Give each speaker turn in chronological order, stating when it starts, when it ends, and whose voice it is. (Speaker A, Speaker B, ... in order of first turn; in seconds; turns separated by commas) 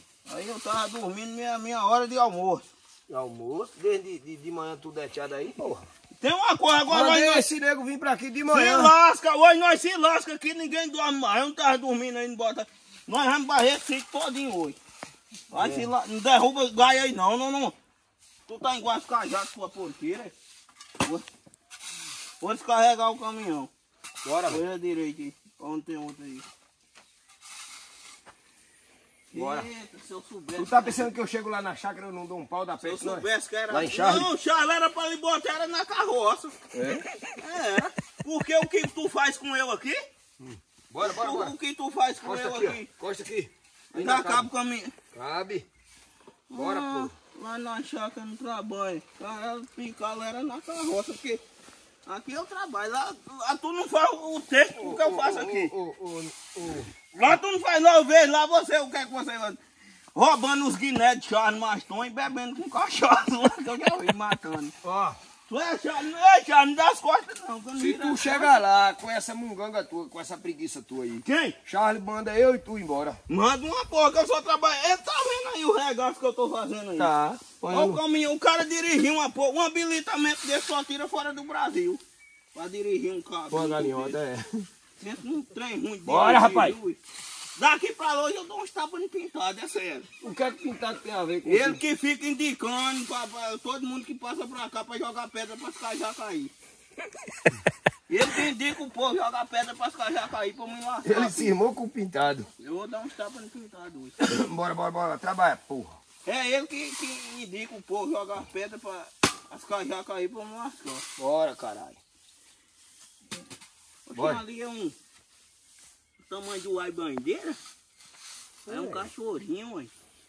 Speaker A: 0.3-2.7, Speaker B: 3.1-5.9, Speaker A: 6.2-7.5, Speaker B: 6.9-8.9, Speaker A: 8.5-14.8, Speaker A: 15.5-17.8, Speaker B: 15.6-15.9, Speaker A: 18.5-20.3, Speaker A: 22.4-23.7, Speaker B: 24.2-24.6, Speaker A: 24.5-26.5, Speaker A: 29.3-31.0, Speaker B: 29.3-29.7, Speaker B: 30.6-34.3, Speaker A: 32.8-36.6, Speaker B: 36.7-37.0, Speaker A: 37.2-40.0, Speaker B: 40.4-41.6, Speaker A: 41.0-42.9, Speaker B: 42.2-44.5, Speaker A: 43.9-45.0, Speaker B: 45.1-45.7, Speaker A: 46.5-51.4, Speaker B: 46.5-47.2, Speaker A: 52.1-55.7, Speaker B: 54.8-56.9, Speaker A: 57.1-59.6, Speaker A: 60.1-64.8, Speaker B: 64.8-65.2, Speaker A: 65.5-68.6, Speaker B: 67.8-73.2, Speaker A: 71.2-71.6, Speaker A: 73.3-77.1, Speaker B: 77.0-78.0, Speaker A: 77.7-82.0, Speaker A: 82.5-84.2, Speaker B: 83.5-84.7, Speaker A: 85.0-87.0, Speaker B: 86.1-86.8, Speaker A: 87.6-90.1, Speaker B: 90.2-91.8, Speaker A: 91.4-96.5, Speaker A: 98.1-101.6, Speaker B: 101.0-102.5, Speaker A: 102.6-104.2, Speaker B: 104.2-106.0, Speaker A: 106.2-111.1, Speaker B: 111.2-112.0, Speaker A: 114.1-115.0, Speaker B: 114.2-114.4, Speaker A: 116.3-117.6, Speaker B: 118.7-119.1, Speaker A: 118.7-119.9